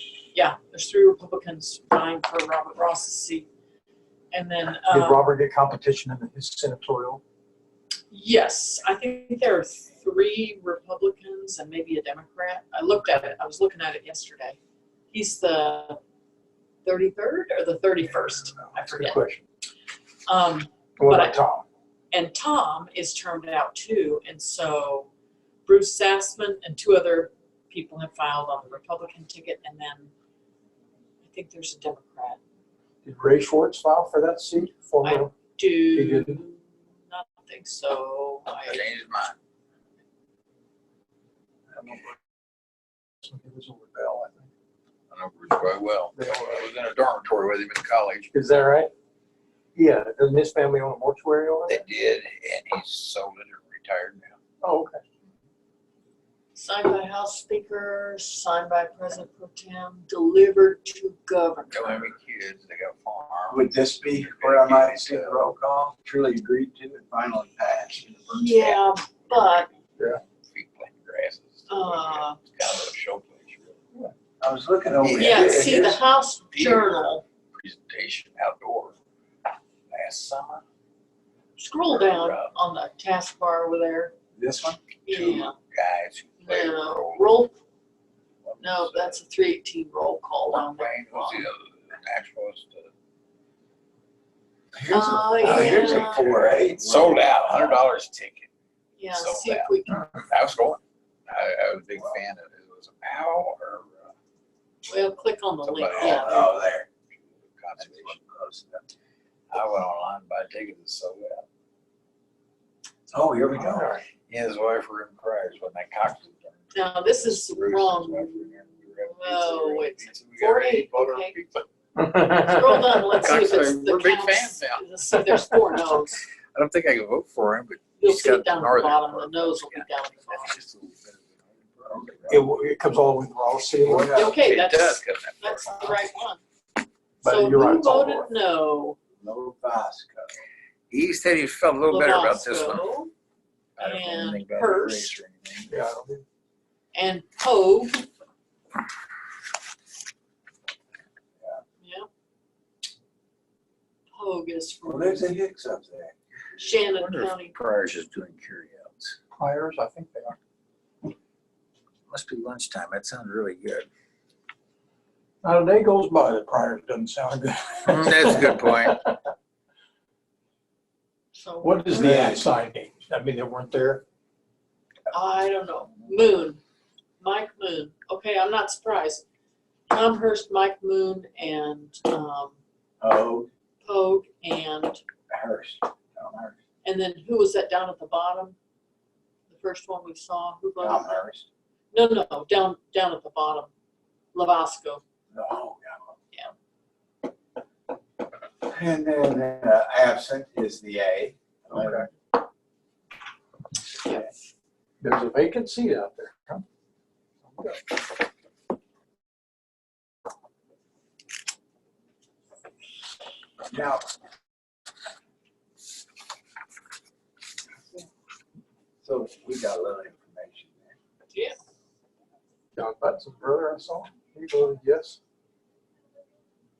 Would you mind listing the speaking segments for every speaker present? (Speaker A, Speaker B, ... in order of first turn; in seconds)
Speaker A: 0.3-3.5, 4.3-5.3, 8.1-14.6, 15.1-16.0, 16.8-19.2, 20.3-21.4, 22.1-25.1, 25.7-30.1, 31.2-32.4, 35.0-38.8, 56.5-62.1, 68.3-69.7, 71.7-72.4, 75.2-77.2, 81.6-84.1, 85.0-85.5, 86.4-87.5, 88.6-91.5, 94.9-96.4, 99.0-100.1, 104.9-106.6, 116.7-121.4, 122.1-126.2, 128.0-130.6, 134.1-136.4, 137.2-139.0, 141.9-143.1, 143.8-145.1, 146.9-148.1, 151.8-152.1, 154.1-155.3, 156.6-157.5, 171.3-172.0, 175.1-176.6, 177.2-179.2, 179.9-182.6, 183.8-185.0, 186.8-188.6, 189.5-191.2, 191.9-193.7, 194.3-195.0, 221.3-221.6
Speaker B: 4.9-7.2, 18.6-19.4, 21.0-21.7, 33.0-35.3, 35.9-36.4, 41.7-42.2, 43.2-44.5, 46.2-46.7, 48.3-48.9, 49.8-51.8, 54.6-55.0, 113.6-114.0, 122.0-122.7, 132.3-134.1, 137.2-138.3, 145.7-146.2, 159.3-160.4, 165.4-169.1, 171.6-174.0, 201.7-202.1, 205.0-206.6, 207.5-207.8, 222.8-225.2
Speaker C: 38.6-39.4, 45.1-48.3, 51.7-54.4, 61.7-65.5, 69.3-69.7, 70.4-73.8, 75.0-76.0, 76.5-79.0, 79.9-80.6, 81.9-82.5, 85.1-87.5, 88.4-89.2, 90.5-92.9, 95.4-98.5, 99.1-104.1, 105.6-108.3, 109.5-111.5, 114.3-121.7, 122.7-124.9, 126.5-132.4, 134.2-136.0, 140.9-142.8, 143.8-145.7, 156.6-159.2, 162.1-163.9, 167.9-169.0
Speaker D: 63.5-68.8, 74.4-76.0, 84.4-84.8, 94.7-97.8, 106.0-106.9, 107.8-108.8, 113.1-114.0, 133.8-134.4, 139.2-140.3, 154.8-156.1, 171.9-172.4, 183.0-183.5, 185.3-186.5, 190.8-191.5, 195.3-196.2, 198.6-202.1, 213.7-214.0, 219.0-221.0